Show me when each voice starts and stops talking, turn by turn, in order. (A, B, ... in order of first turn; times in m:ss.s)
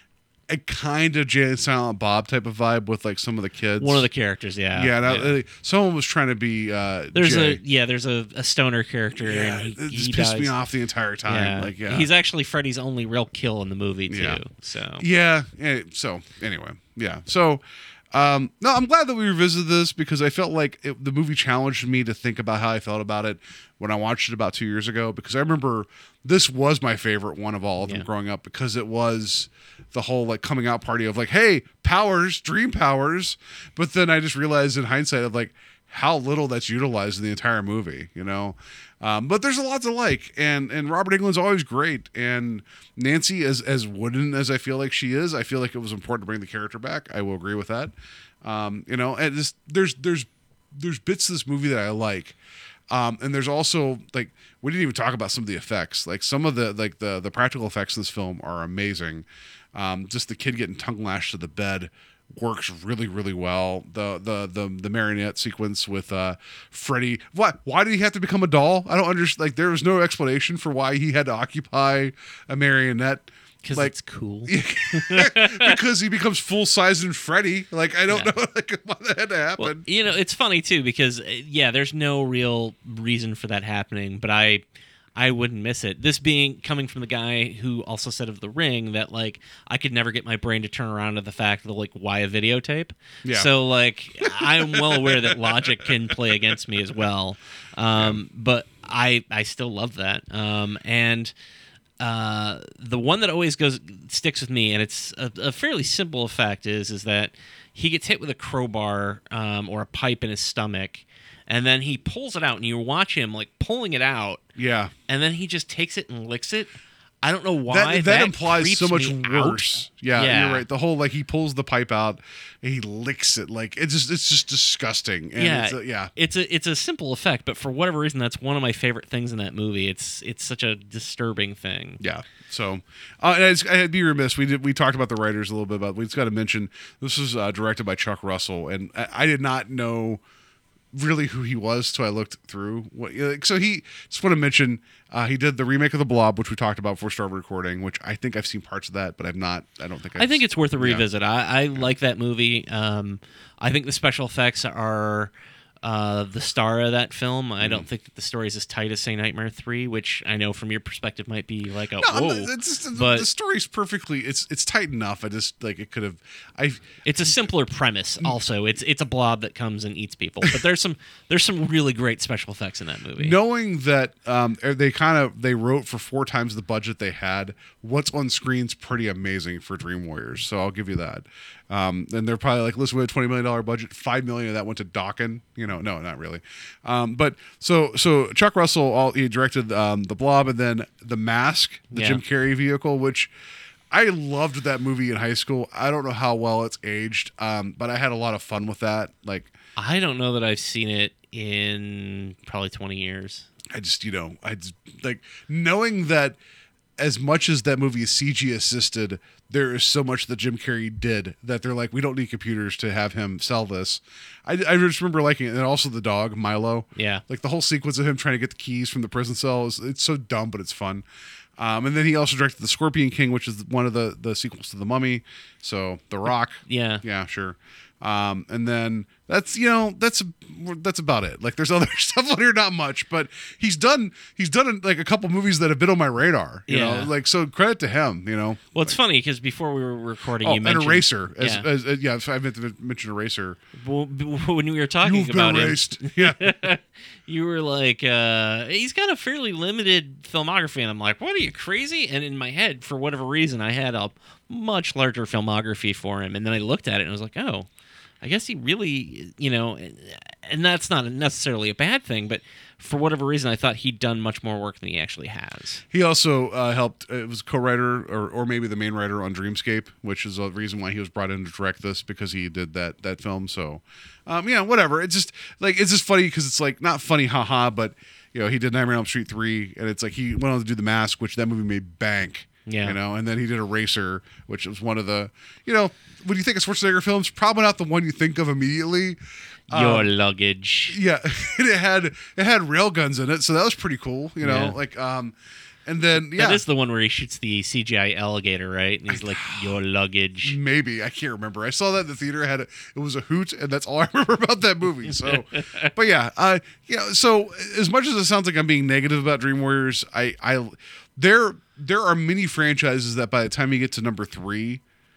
0:00.5-0:04.1 A
0:03.8-0:05.4 B
0:04.7-0:07.6 A
0:07.2-0:10.5 B
0:09.2-0:12.1 A
0:11.2-0:15.0 B
0:14.1-0:14.4 A
0:15.0-0:52.4 A
0:52.9-1:13.9 A
1:13.6-1:15.8 B
1:14.5-1:19.8 A
1:18.1-1:18.3 B
1:19.6-1:24.6 B
1:25.2-1:41.3 B
1:33.2-1:33.5 A
1:34.2-1:35.9 A
1:38.0-1:38.2 A
1:42.0-1:54.4 B
1:54.6-1:54.9 A
1:55.1-1:56.7 B
1:57.2-2:00.6 B
1:57.7-2:06.1 A
2:05.4-2:12.0 B
2:12.0-2:20.2 A
2:20.9-2:31.0 A
2:30.2-2:35.3 B
2:35.8-2:43.3 B
2:37.6-2:37.9 A
2:42.0-2:47.5 A
2:47.0-2:53.4 B
2:53.2-3:13.3 A
3:11.9-3:12.2 B
3:13.9-3:19.5 A
3:19.8-3:23.5 B
3:23.7-3:26.4 A
3:27.0-3:41.0 A
3:37.0-3:37.2 B
3:41.6-3:59.0 A
3:46.7-3:47.0 B
3:56.7-3:57.1 B
3:58.7-4:01.7 B
4:00.4-4:03.6 A
4:03.8-4:17.7 B
4:05.0-4:06.5 A
4:18.2-4:25.8 B
4:25.9-4:49.2 A
4:42.7-4:43.0 B
4:49.7-4:50.1 A
4:49.7-4:51.0 B
4:50.9-4:55.4 A
4:54.4-4:54.8 B
4:55.9-4:56.6 A
4:56.2-5:00.6 B
4:59.1-4:59.8 A
5:00.4-5:14.8 A
5:05.1-5:05.9 B